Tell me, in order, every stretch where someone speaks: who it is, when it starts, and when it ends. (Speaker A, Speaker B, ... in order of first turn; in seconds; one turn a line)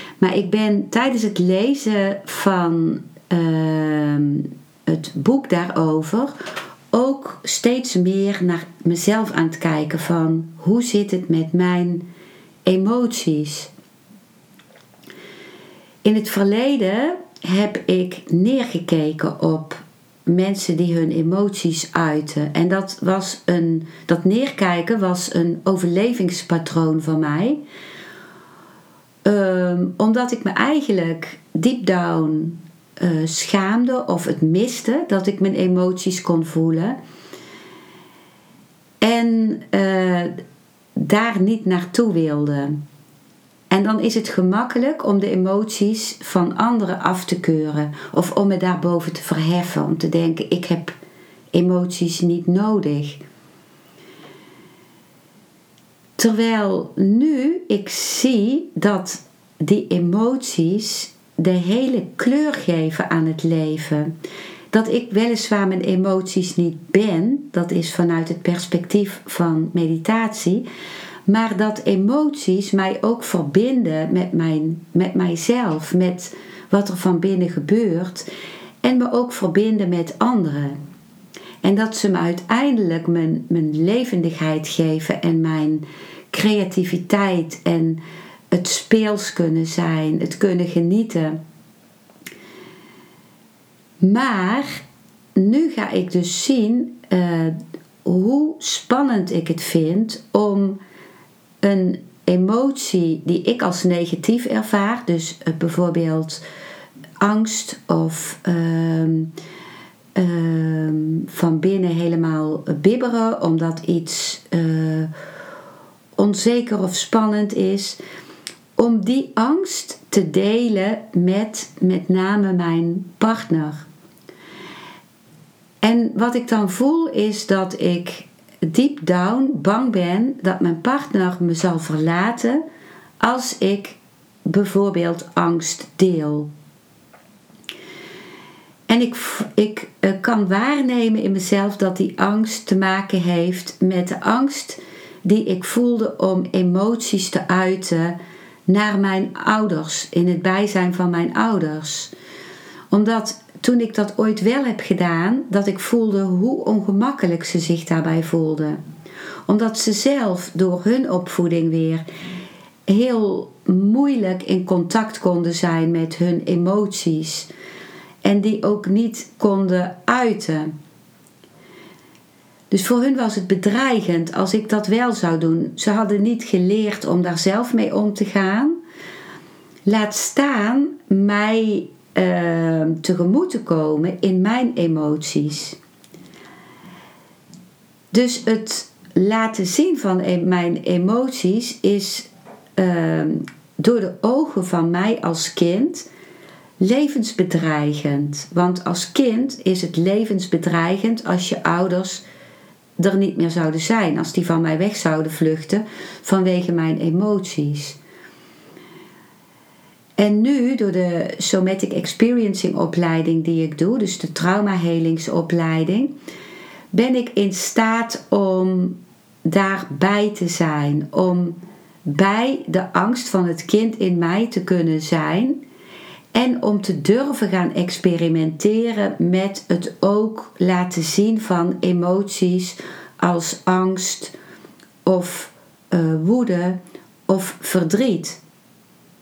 Speaker A: 0.2-6.3
Speaker A: 6.9-12.1
Speaker A: 12.7-13.7
Speaker A: 16.0-27.6
Speaker A: 29.2-37.0
Speaker A: 39.0-40.4
Speaker A: 41.0-42.8
Speaker A: 43.7-51.0
Speaker A: 51.5-53.2
Speaker A: 56.2-64.1
Speaker A: 64.7-70.7
Speaker A: 71.3-78.3
Speaker A: 78.8-80.8
Speaker A: 81.6-91.4
Speaker A: 94.0-94.8
Speaker A: 95.4-100.8
Speaker A: 101.6-106.4
Speaker A: 107.2-109.3
Speaker A: 110.2-115.1
Speaker A: 116.2-118.0
Speaker A: 118.8-123.9
Speaker A: 125.8-132.6
Speaker A: 133.2-136.5
Speaker A: 138.9-152.1
Speaker A: 152.9-158.8
Speaker A: 159.5-162.1
Speaker A: 162.9-167.5
Speaker A: 168.2-170.7
Speaker A: 172.7-178.8
Speaker A: 179.9-185.8
Speaker A: 188.1-196.1
Speaker A: 196.8-202.2
Speaker A: 203.0-208.0
Speaker A: 210.2-216.1
Speaker A: 216.9-225.6
Speaker A: 226.3-234.3
Speaker A: 235.1-238.4